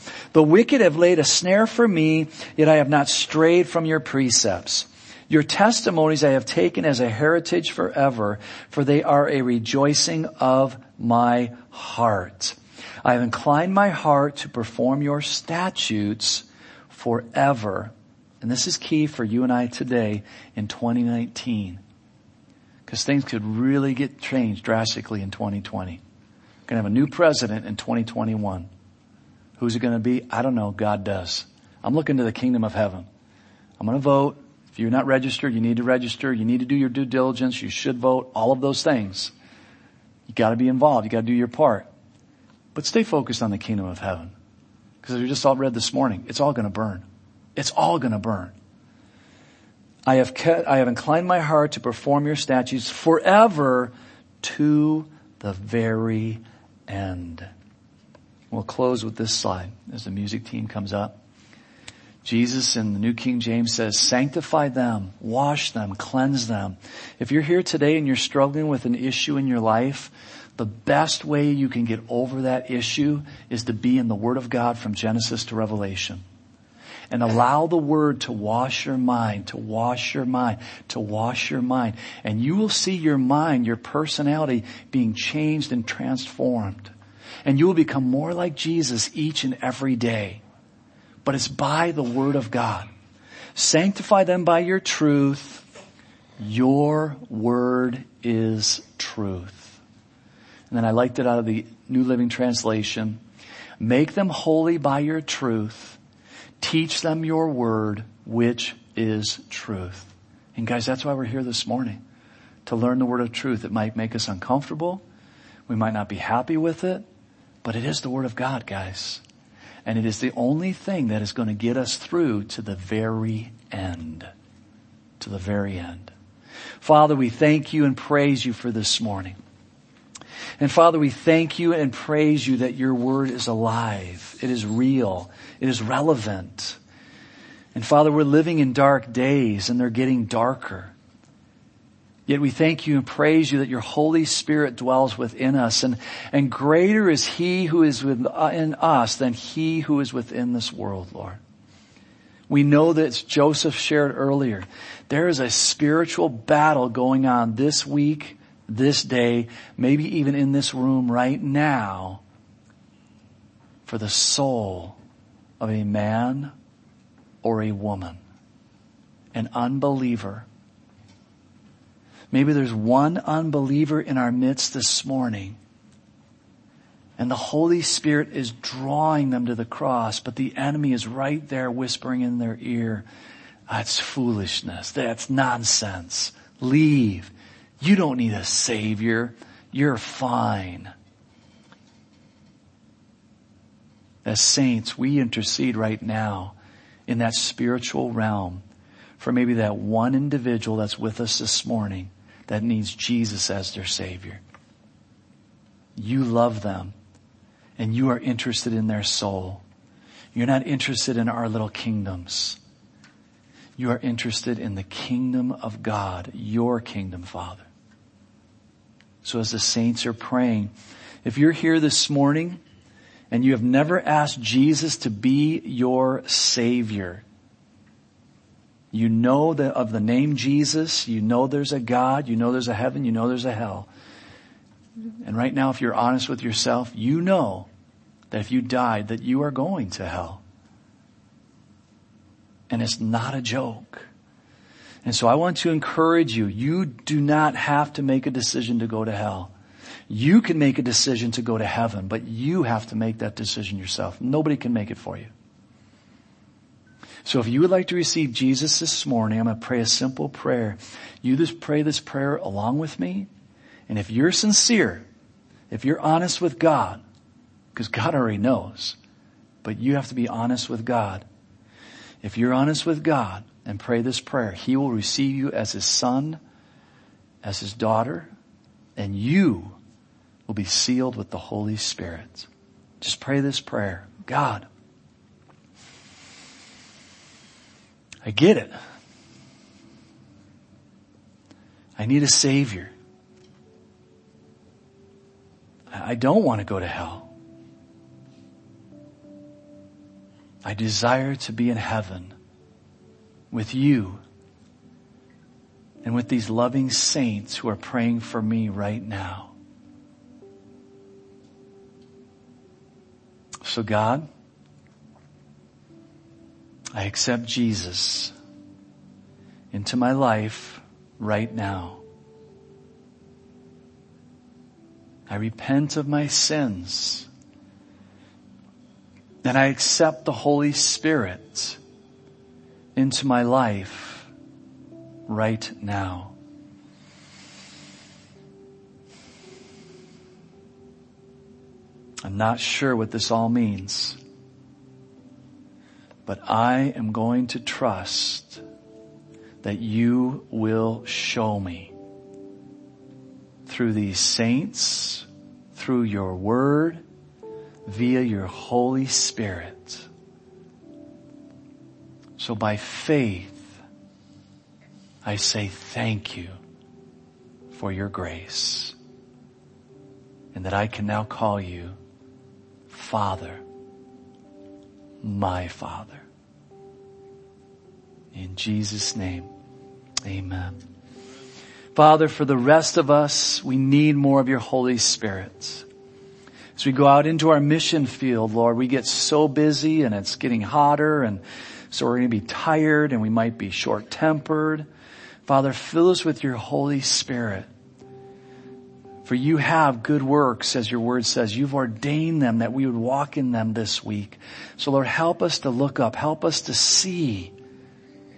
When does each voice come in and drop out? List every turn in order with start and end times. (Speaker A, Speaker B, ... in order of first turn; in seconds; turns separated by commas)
Speaker A: 0.3-21.8, Speaker A: 22.9-26.0, Speaker A: 26.7-28.7, Speaker A: 29.6-33.1, Speaker A: 33.8-39.3, Speaker A: 40.3-41.9, Speaker A: 42.7-44.3, Speaker A: 45.0-47.0, Speaker A: 47.6-48.5, Speaker A: 50.1-57.5, Speaker A: 58.5-61.2, Speaker A: 62.2-76.2, Speaker A: 77.1-86.9, Speaker A: 87.5-90.4, Speaker A: 91.2-92.9, Speaker A: 93.5-95.6, Speaker A: 96.4-99.8, Speaker A: 100.7-103.2, Speaker A: 103.8-106.0, Speaker A: 106.6-112.0, Speaker A: 112.7-115.0, Speaker A: 115.7-117.0, Speaker A: 117.6-119.2, Speaker A: 119.8-124.3, Speaker A: 125.2-126.1, Speaker A: 126.8-129.4, Speaker A: 130.6-136.8, Speaker A: 137.8-140.9, Speaker A: 142.3-151.4, Speaker A: 152.5-162.2, Speaker A: 163.8-165.0, Speaker A: 165.6-166.5, Speaker A: 167.4-168.2, Speaker A: 169.3-170.5, Speaker A: 172.3-175.6, Speaker A: 177.2-183.1, Speaker A: 183.7-190.9, Speaker A: 194.2-196.6, Speaker A: 197.1-198.6, Speaker A: 199.2-204.4, Speaker A: 206.0-206.9, Speaker A: 207.8-209.6, Speaker A: 210.3-212.6, Speaker A: 213.8-217.7, Speaker A: 219.2-220.7, Speaker A: 221.2-222.6, Speaker A: 223.3-227.2, Speaker A: 228.9-233.9, Speaker A: 235.2-237.7, Speaker A: 238.3-240.4, Speaker A: 242.7-244.1, Speaker A: 245.0-249.5, Speaker A: 250.1-255.3, Speaker A: 257.2-263.3, Speaker A: 263.9-265.1, Speaker A: 265.7-267.0, Speaker A: 267.8-269.0, Speaker A: 269.6-271.3, Speaker A: 272.2-276.4, Speaker A: 277.4-278.3, Speaker A: 279.0-279.8, Speaker A: 280.5-282.5, Speaker A: 283.0-284.7, Speaker A: 288.2-288.8, Speaker A: 292.0-292.9, Speaker A: 295.9-297.3, Speaker A: 300.6-302.4, Speaker A: 303.5-304.2, Speaker A: 306.0-309.5, Speaker A: 313.6-314.3, Speaker A: 317.0-318.3, Speaker A: 319.7-322.0, Speaker A: 325.3-327.3, Speaker A: 329.4-331.8, Speaker A: 333.0-334.3, Speaker A: 335.3-336.4, Speaker A: 342.2-344.2, Speaker A: 346.3-348.6, Speaker A: 349.6-351.9, Speaker A: 353.7-357.0, Speaker A: 357.9-360.1, Speaker A: 362.4-363.8, Speaker A: 365.2-366.6, Speaker A: 367.7-368.9, Speaker A: 370.5-371.9, Speaker A: 372.9-373.6, Speaker A: 375.2-376.2, Speaker A: 378.3-379.5, Speaker A: 380.2-380.8, Speaker A: 381.9-385.9, Speaker A: 386.8-394.9, Speaker A: 395.5-397.7, Speaker A: 399.2-407.5